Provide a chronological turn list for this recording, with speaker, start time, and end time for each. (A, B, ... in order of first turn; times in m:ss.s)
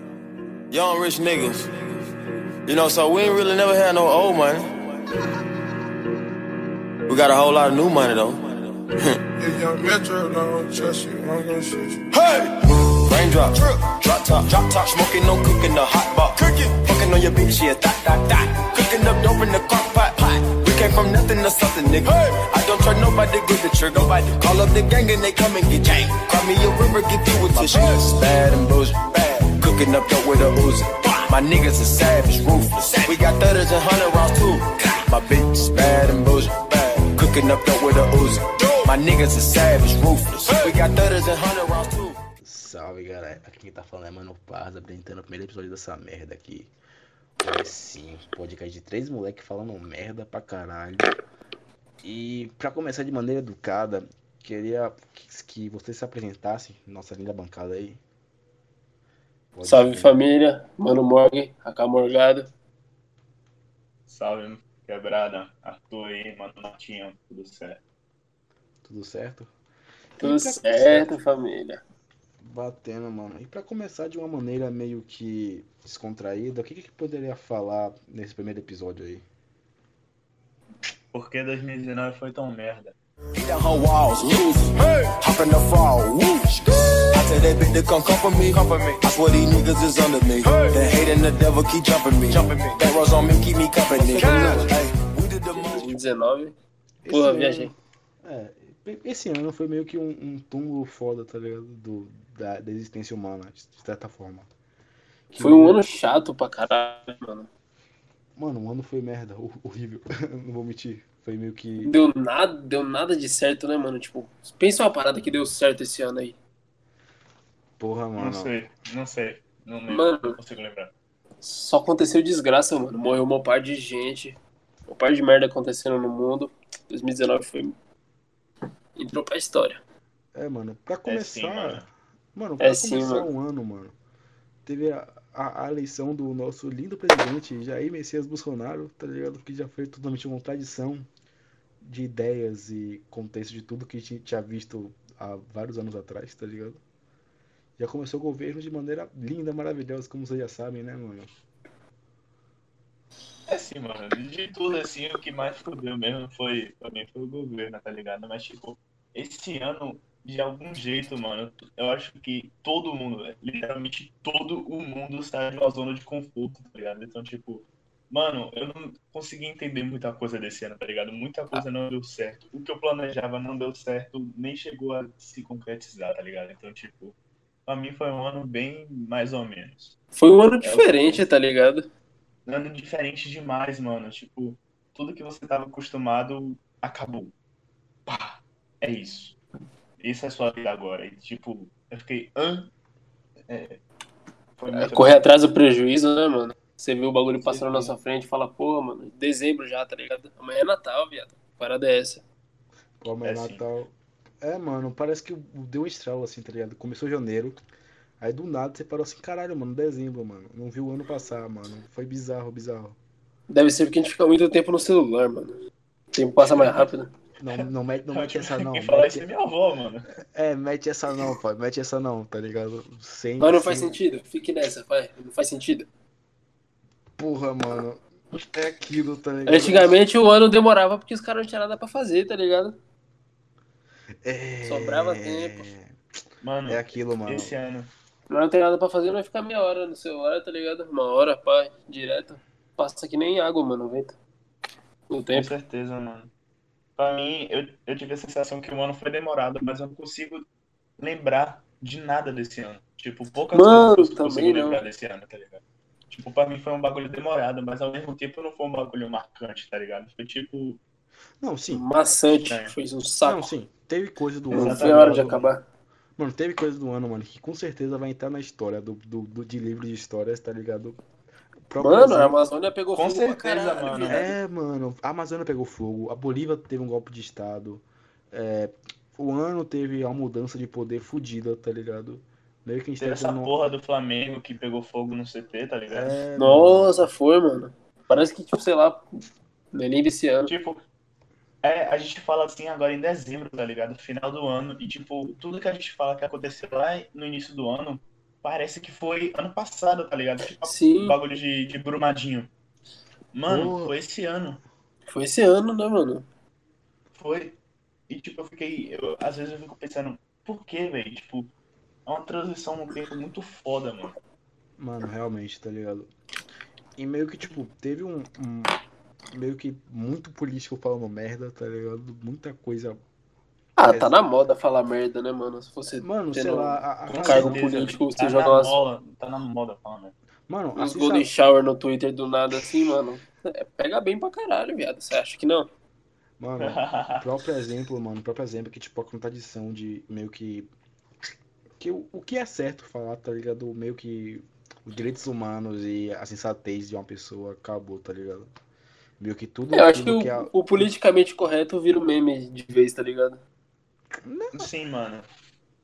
0:00.7-0:01.7 A
0:02.7-0:04.7 A
0:07.1-0:09.2 A
0:09.4-0:12.0 B
0:12.1-0:42.2 A
0:42.4-0:46.7 C
0:47.4-0:51.1 C
0:52.0-0:58.0 C
0:59.5-1:00.1 C
0:59.6-1:02.5 D
1:04.1-1:07.8 E
1:08.8-1:09.5 C
1:10.2-1:11.1 C
1:10.2-1:11.8 D
1:12.4-1:19.2 C
1:21.1-1:23.0 E
1:23.4-1:36.0 A
1:35.5-1:36.6 D
1:37.0-1:44.5 C
1:37.1-1:37.7 D
1:45.3-1:45.8 C
1:45.4-1:47.5 D
1:48.4-1:51.9 C
1:51.8-1:56.4 D
1:57.8-1:58.5 C
1:58.2-2:00.9 E
1:59.9-2:00.4 D
2:01.4-2:04.4 D
2:04.9-2:07.7 D
2:09.0-2:09.8 D
2:10.4-2:14.0 C
2:11.1-2:11.9 E
2:12.6-2:13.3 D
2:14.7-2:21.1 C
2:21.8-2:26.8 C
2:27.8-2:31.3 C
2:33.5-2:57.2 E
2:57.7-3:00.0 E
3:00.2-3:01.9 D
3:00.6-3:01.3 E
3:02.5-3:07.3 E
3:08.1-3:09.4 E
3:10.0-3:12.7 E
3:13.5-3:13.8 E
3:14.6-3:15.3 E
3:14.7-3:22.2 D
3:17.4-3:18.0 E
3:23.0-3:27.6 C
3:23.2-3:23.6 E
3:28.2-3:33.0 C
3:33.5-3:35.6 D
3:36.1-3:37.1 D
3:36.4-3:36.9 E
3:37.4-3:39.3 C
3:37.5-3:40.1 E
3:40.2-3:44.0 C
3:43.4-3:45.9 D
3:47.2-3:49.9 C
3:49.5-3:52.8 D
3:54.2-3:56.0 C
3:54.6-3:55.7 D
3:56.4-3:57.9 E
3:56.7-3:57.5 C
3:58.3-4:04.2 D
4:05.1-4:05.5 D
4:05.3-4:06.3 E
4:07.0-4:10.4 E
4:11.0-4:20.8 E
4:13.5-4:14.8 D
4:21.4-4:21.8 C
4:21.7-4:23.5 D
4:22.2-4:22.7 E
4:23.2-4:25.4 C
4:24.5-4:25.5 E
4:24.5-4:25.6 D
4:26.2-4:31.0 C
4:31.7-4:32.4 C
4:31.8-4:34.3 D
4:33.0-4:34.3 E
4:34.1-4:43.5 C
4:43.0-4:46.2 E
4:45.9-4:47.1 C
4:46.4-4:49.2 D
4:49.7-4:50.5 D
4:50.5-4:50.8 E
4:51.6-5:02.5 E
5:00.6-5:01.2 D
5:03.3-5:04.6 E
5:03.5-5:03.9 C
5:05.1-5:06.3 D
5:07.1-5:07.6 E
5:08.1-5:11.5 E
5:12.1-5:14.2 E
5:14.8-5:16.1 C
5:17.0-5:18.8 C
5:19.3-5:23.0 C
5:23.8-5:28.8 D
5:23.8-5:24.2 C
5:25.9-5:27.9 C
5:27.1-5:30.1 E
5:30.5-5:31.3 C
5:30.8-5:35.7 D
5:36.4-5:40.7 C
5:36.6-5:37.2 E
5:41.8-5:48.5 C
5:49.2-5:50.9 C
5:49.7-5:53.4 D
5:54.2-5:54.7 C
5:54.6-5:55.3 E